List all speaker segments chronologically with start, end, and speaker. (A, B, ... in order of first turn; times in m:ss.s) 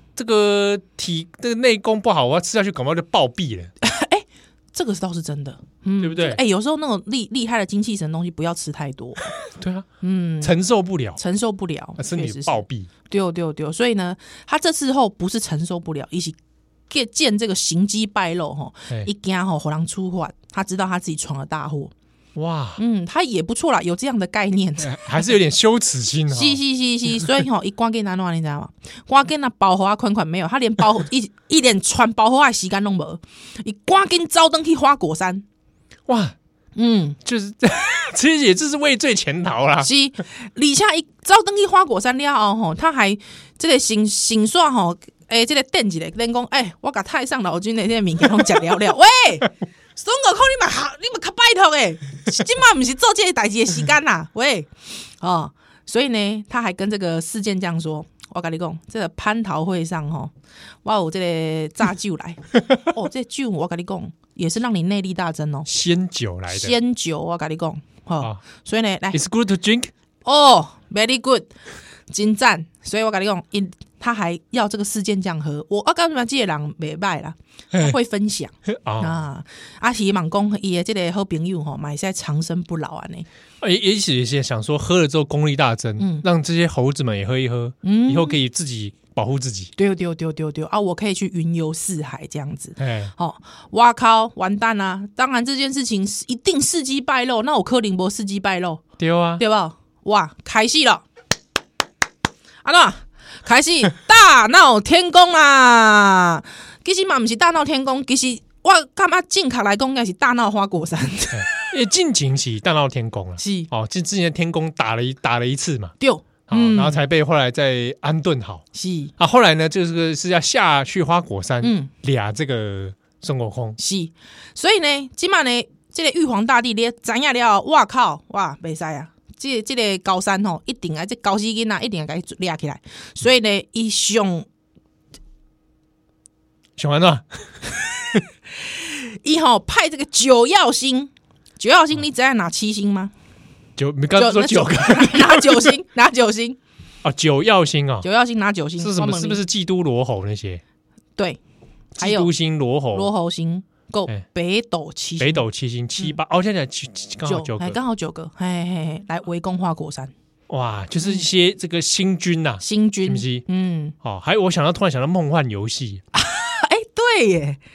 0:00.2-0:03.7 A
0:03.8-0:09.4 B
0:06.0-0:06.4 A
0:09.5-0:09.9 A
0:10.0-0:10.5 B
0:10.4-0:11.2 A
0:11.2-0:16.4 B
0:12.0-0:12.9 A
0:16.9-0:21.9 B
0:22.4-0:22.8 A
0:22.8-0:25.3 B
0:24.8-0:26.6 A
0:26.3-0:35.4 B
0:36.1-0:36.4 A
0:36.8-0:37.2 B
0:37.2-0:39.9 A
0:39.8-1:00.3 B
1:00.8-1:05.7 B
1:05.6-1:06.8 A
1:06.5-1:09.2 B
1:09.1-1:09.9 A
1:10.2-1:11.5 B
1:12.1-1:23.3 B
1:18.6-1:19.2 A
1:23.6-1:29.7 A
1:26.0-1:26.2 B
1:27.8-1:28.4 B
1:29.8-1:38.8 B
1:32.8-1:33.1 A
1:39.0-1:39.4 A
1:39.4-1:41.1 B
1:42.6-1:51.7 B
1:51.3-1:55.9 A
1:53.4-1:53.7 B
1:56.0-1:57.0 B
1:56.5-1:58.6 A
1:58.7-1:59.1 B
1:59.2-2:03.8 A
2:01.6-2:01.9 B
2:03.8-2:14.5 B
2:16.8-2:18.2 A
2:18.6-2:23.1 B
2:23.8-2:25.8 A
2:24.2-2:26.6 B
2:27.0-2:28.1 A
2:28.0-2:29.4 B
2:28.8-2:30.6 A
2:32.0-2:33.1 A
2:32.0-2:32.3 B
2:32.9-2:35.4 B
2:35.2-2:37.8 A
2:37.2-2:40.1 B
2:40.5-2:43.4 A
2:42.6-2:44.0 B
2:44.0-2:46.0 A
2:46.1-2:47.6 B